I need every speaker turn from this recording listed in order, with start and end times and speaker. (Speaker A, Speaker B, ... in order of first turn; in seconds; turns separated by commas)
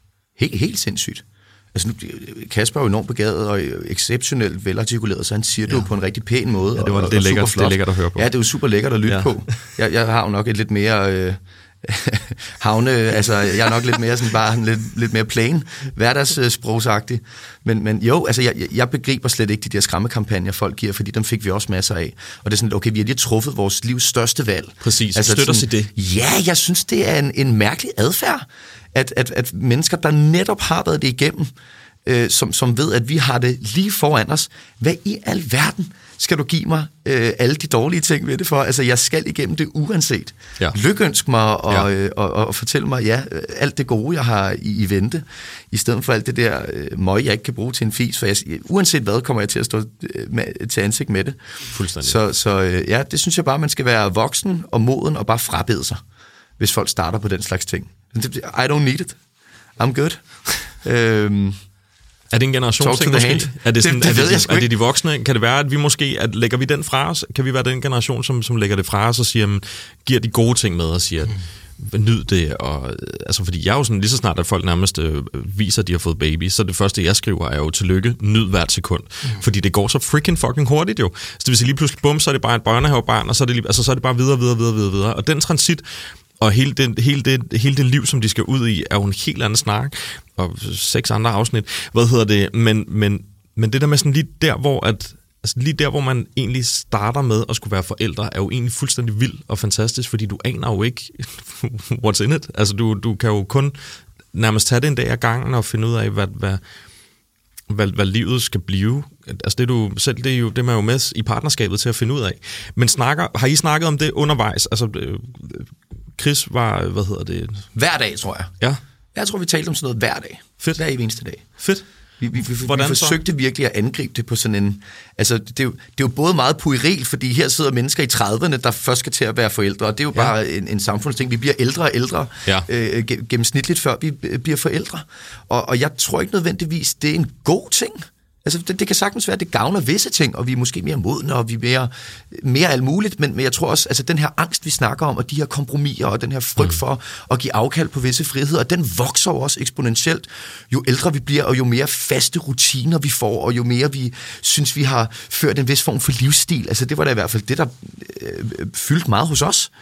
Speaker A: 0.3-31.5, Speaker B: 6.7-8.3, Speaker B: 9.1-9.4, Speaker B: 24.8-25.9, Speaker A: 32.0-51.4, Speaker B: 51.7-52.2, Speaker A: 52.0-56.0, Speaker A: 56.6-59.2, Speaker A: 59.8-61.6, Speaker B: 62.3-106.6, Speaker A: 62.8-64.7, Speaker B: 107.7-117.7, Speaker A: 117.7-118.5, Speaker A: 119.1-121.6, Speaker B: 120.6-121.8, Speaker A: 122.2-159.7, Speaker B: 122.4-123.2